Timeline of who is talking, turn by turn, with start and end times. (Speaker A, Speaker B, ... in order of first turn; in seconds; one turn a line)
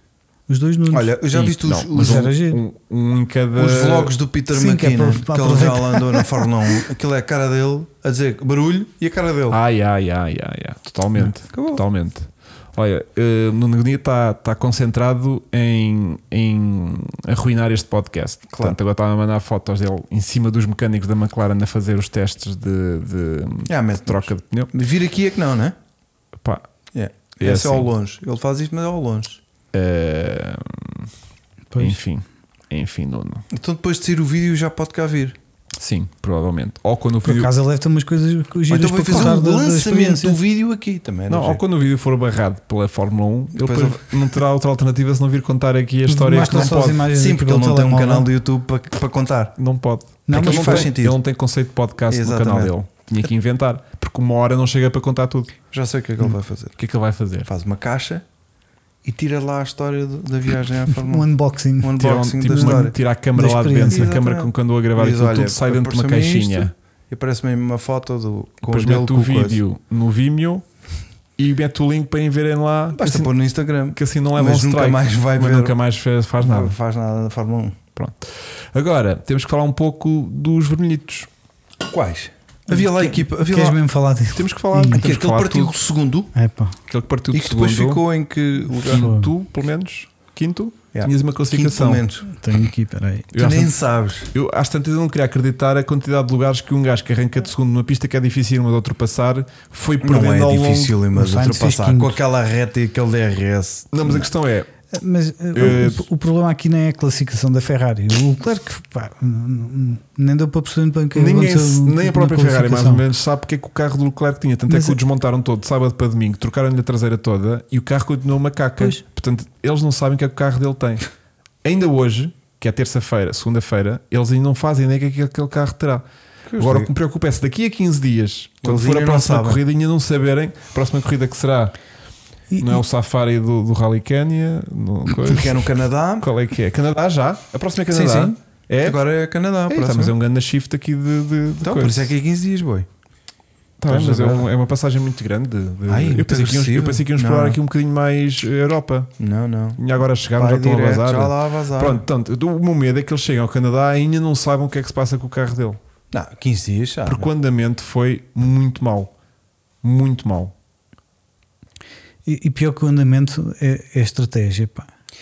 Speaker A: 0.5-1.1
Speaker B: 0.9-2.3
Speaker C: 1.3-4.1
Speaker A: 1.9-2.6
Speaker B: 3.5-9.6
Speaker A: 4.5-6.4
Speaker C: 9.5-24.7
Speaker B: 11.2-11.8
Speaker B: 23.7-25.7
Speaker B: 26.9-29.4
Speaker C: 27.4-27.9
Speaker C: 29.7-31.1
Speaker A: 31.7-32.0
Speaker C: 31.8-33.5
Speaker B: 33.5-35.4
Speaker C: 35.7-37.5
Speaker A: 37.2-40.4
Speaker B: 38.7-41.6
Speaker C: 41.3-47.0
Speaker B: 43.5-44.4
Speaker A: 46.0-48.3
Speaker B: 46.5-49.6
Speaker C: 49.6-55.5
Speaker A: 50.3-50.9
Speaker B: 50.3-51.2
Speaker B: 52.1-52.7
Speaker B: 55.7-56.8
Speaker C: 56.8-57.5
Speaker B: 57.5-58.2
Speaker B: 59.0-61.3
Speaker A: 60.9-61.9
Speaker B: 61.8-63.0
Speaker C: 62.0-66.7
Speaker A: 63.3-64.1
Speaker B: 63.8-69.6
Speaker C: 68.7-70.6
Speaker C: 71.4-73.3
Speaker B: 72.9-75.8
Speaker C: 73.9-76.8
Speaker B: 76.4-77.8
Speaker C: 78.0-81.3
Speaker B: 81.9-83.8
Speaker A: 82.7-85.0
Speaker C: 84.3-85.7
Speaker B: 84.9-86.3
Speaker A: 86.3-86.8
Speaker C: 86.9-88.0
Speaker B: 87.3-89.1
Speaker C: 88.8-92.0
Speaker A: 88.9-89.3
Speaker B: 90.9-92.2
Speaker A: 92.2-93.3
Speaker C: 93.3-93.7
Speaker B: 93.3-94.3
Speaker C: 94.3-101.0
Speaker B: 100.0-104.3
Speaker A: 101.1-102.2
Speaker C: 103.9-104.7
Speaker A: 104.9-113.0
Speaker C: 105.5-106.0
Speaker C: 111.1-121.0
Speaker A: 114.7-115.0
Speaker C: 121.6-126.0
Speaker B: 126.5-126.9
Speaker C: 126.6-131.7
Speaker B: 128.6-129.6
Speaker A: 132.5-132.8
Speaker C: 132.6-139.0
Speaker B: 135.2-136.3
Speaker B: 137.9-140.1
Speaker C: 139.7-142.1
Speaker B: 141.6-142.9
Speaker C: 143.8-149.1
Speaker B: 143.8-144.5
Speaker B: 145.9-147.6
Speaker B: 149.2-149.8
Speaker C: 149.8-155.8
Speaker B: 150.3-152.0
Speaker B: 156.1-157.3
Speaker C: 157.1-159.1
Speaker C: 159.8-160.5
Speaker A: 162.2-164.9